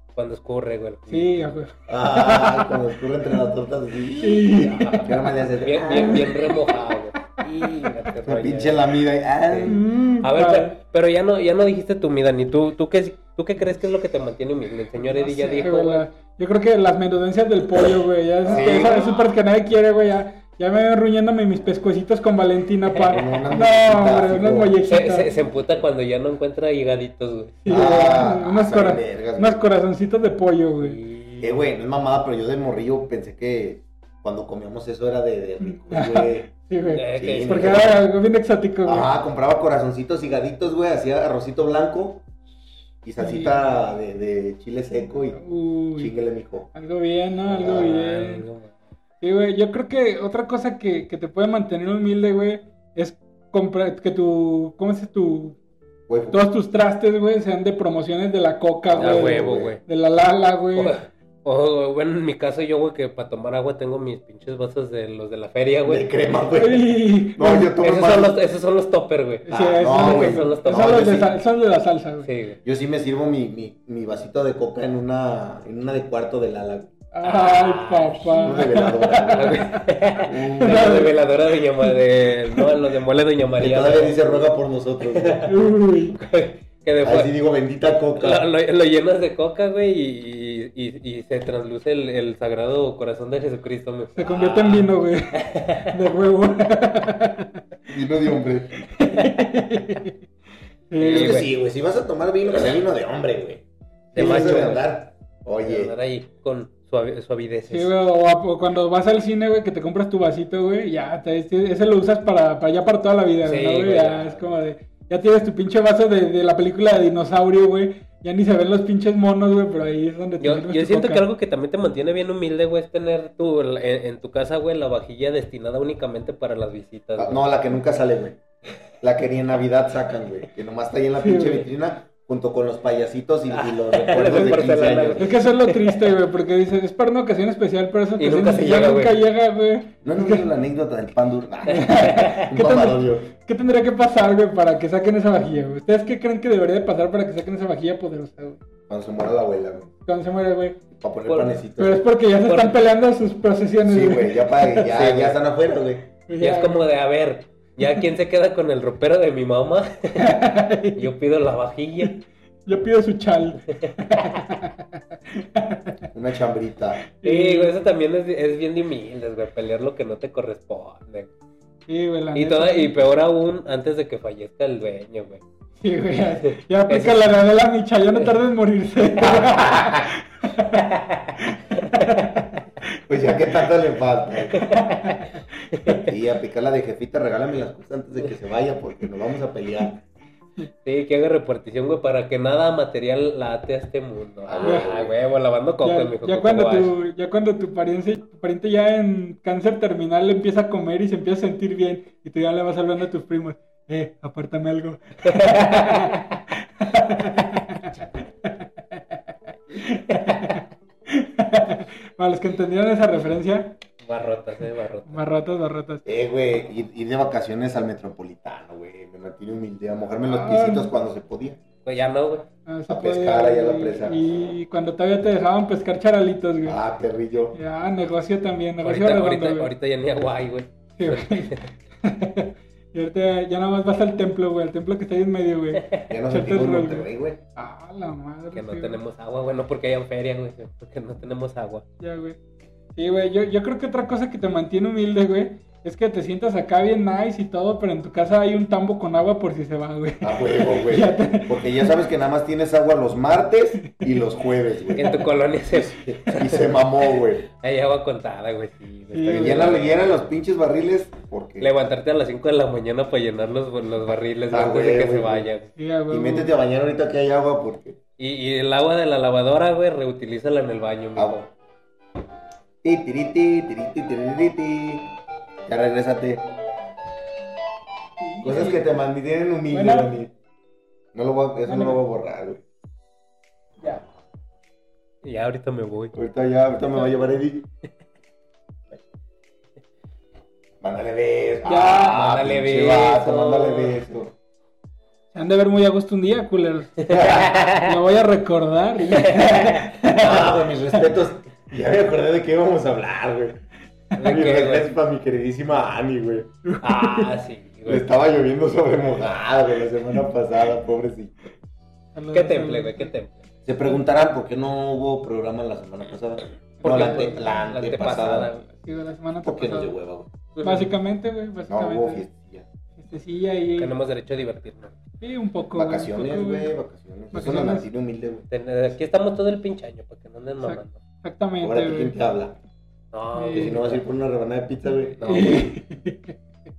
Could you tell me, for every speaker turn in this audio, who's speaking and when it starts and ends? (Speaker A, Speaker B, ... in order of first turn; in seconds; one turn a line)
Speaker A: 0.2-1.4
Speaker B: 1.1-2.8
Speaker C: 1.9-6.3
Speaker B: 4.2-5.3
Speaker A: 4.8-8.8
Speaker B: 5.9-6.8
Speaker C: 8.2-9.8
Speaker A: 9.5-16.1
Speaker B: 9.7-10.8
Speaker B: 15.0-25.3
Speaker C: 18.4-19.2
Speaker A: 18.5-19.1
Speaker A: 22.9-23.4
Speaker C: 23.1-24.8
Speaker A: 24.9-27.6
Speaker B: 27.6-31.0
Speaker C: 27.7-29.6
Speaker A: 30.8-31.5
Speaker C: 31.4-36.5
Speaker B: 35.7-39.1
Speaker A: 36.9-37.9
Speaker C: 37.1-38.0
Speaker C: 38.8-42.2
Speaker C: 43.0-45.4
Speaker B: 43.2-43.6
Speaker B: 45.4-46.1
Speaker C: 46.0-46.7
Speaker B: 46.7-48.5
Speaker A: 47.5-48.7
Speaker C: 47.5-47.9
Speaker B: 49.2-55.6
Speaker C: 56.1-56.5
Speaker B: 56.3-61.0
Speaker C: 58.9-59.8
Speaker A: 59.0-59.8
Speaker A: 60.8-66.1
Speaker C: 65.8-68.4
Speaker B: 66.6-67.8
Speaker A: 67.8-71.2
Speaker B: 69.5-72.3
Speaker C: 69.5-71.4
Speaker A: 72.2-72.6
Speaker C: 72.7-76.9
Speaker B: 77.1-81.2
Speaker A: 77.2-78.5
Speaker C: 78.4-79.7
Speaker A: 79.2-84.5
Speaker C: 80.3-81.1
Speaker C: 83.6-85.5
Speaker A: 85.0-85.6
Speaker B: 85.5-86.2
Speaker A: 86.1-87.3
Speaker C: 87.0-88.4
Speaker A: 88.2-95.9
Speaker B: 94.2-95.4
Speaker B: 95.9-97.6
Speaker C: 97.9-98.7
Speaker B: 98.8-100.1
Speaker B: 100.9-101.4
Speaker A: 101.0-101.5
Speaker C: 101.0-105.9
Speaker A: 104.1-104.9
Speaker B: 104.2-104.8
Speaker A: 105.6-107.9
Speaker B: 107.7-121.2
Speaker A: 113.4-114.5
Speaker A: 120.4-127.5
Speaker C: 127.2-128.4
Speaker C: 129.0-135.3
Speaker B: 131.2-131.7
Speaker A: 133.5-136.1
Speaker B: 135.2-140.5
Speaker A: 138.2-139.2
Speaker C: 140.0-143.3
Speaker B: 141.7-148.6
Speaker A: 142.0-142.3
Speaker C: 148.9-149.9
Speaker B: 150.1-150.8
Speaker C: 151.0-152.1
Speaker A: 151.3-151.6
Speaker B: 151.8-154.9
Speaker A: 152.4-152.8
Speaker C: 153.8-156.1
Speaker A: 154.9-155.4
Speaker B: 156.3-156.8
Speaker A: 156.4-162.2
Speaker B: 160.2-161.1
Speaker B: 162.7-166.0
Speaker A: 163.7-164.0
Speaker C: 166.1-167.0
Speaker B: 167.2-167.8
Speaker A: 167.2-171.3
Speaker B: 171.9-172.9
Speaker A: 172.3-175.4
Speaker B: 175.8-180.8
Speaker A: 176.5-177.3
Speaker C: 179.3-179.6
Speaker A: 180.7-182.3
Speaker B: 181.4-182.6
Speaker C: 183.1-184.7
Speaker A: 184.6-186.1
Speaker B: 184.6-186.1
Speaker C: 186.1-190.1
Speaker A: 190.8-196.9
Speaker C: 194.5-195.2
Speaker B: 194.6-194.9
Speaker B: 195.8-209.2
Speaker A: 205.2-206.2
Speaker B: 209.7-213.8
Speaker A: 210.2-210.6
Speaker A: 214.0-215.2
Speaker B: 215.1-216.1
Speaker C: 216.1-221.6
Speaker B: 220.3-220.9
Speaker A: 221.8-222.5
Speaker B: 222.7-226.8
Speaker C: 222.9-224.5
Speaker C: 226.7-227.6
Speaker B: 227.5-229.7
Speaker A: 228.8-231.7
Speaker B: 231.0-239.0
Speaker A: 235.8-236.1
Speaker C: 236.1-237.4
Speaker A: 238.5-241.8
Speaker B: 242.0-242.4
Speaker B: 243.0-251.9
Speaker C: 250.2-255.2
Speaker A: 255.0-256.5
Speaker C: 255.7-257.5
Speaker B: 256.2-256.4
Speaker A: 257.5-260.2
Speaker B: 259.1-259.8
Speaker C: 259.3-261.7
Speaker A: 261.6-265.7
Speaker C: 264.5-265.5
Speaker B: 265.8-266.5
Speaker C: 266.1-268.0
Speaker A: 268.2-271.5
Speaker C: 272.8-275.1
Speaker C: 275.7-276.4
Speaker B: 278.2-278.9
Speaker C: 278.4-280.3
Speaker B: 279.7-280.2
Speaker C: 281.1-282.6
Speaker B: 281.7-282.0
Speaker A: 285.2-286.1
Speaker C: 286.1-287.7
Speaker B: 287.0-287.3
Speaker C: 290.8-294.3
Speaker B: 291.6-292.2
Speaker A: 291.8-294.0
Speaker B: 295.3-300.5
Speaker A: 297.1-298.0
Speaker C: 297.1-297.6
Speaker A: 299.1-300.9
Speaker C: 300.2-303.6
Speaker A: 304.2-304.9
Speaker C: 304.2-306.5
Speaker B: 306.6-307.3
Speaker A: 306.8-308.1
Speaker C: 307.9-311.5
Speaker B: 312.1-313.1
Speaker A: 312.3-313.5
Speaker C: 313.7-318.5
Speaker B: 316.8-317.5
Speaker A: 316.8-318.7
Speaker B: 318.7-319.9
Speaker C: 319.4-320.3
Speaker A: 320.6-320.9
Speaker B: 320.6-322.3
Speaker C: 321.7-322.7
Speaker B: 323.0-323.9
Speaker A: 323.8-325.0
Speaker B: 325.2-326.7
Speaker C: 325.7-328.4
Speaker B: 327.3-327.9
Speaker A: 328.5-331.0
Speaker B: 330.6-332.1
Speaker C: 331.6-332.6
Speaker A: 333.1-334.0
Speaker B: 333.3-333.8
Speaker C: 333.5-335.6
Speaker A: 335.2-335.8
Speaker B: 335.2-336.4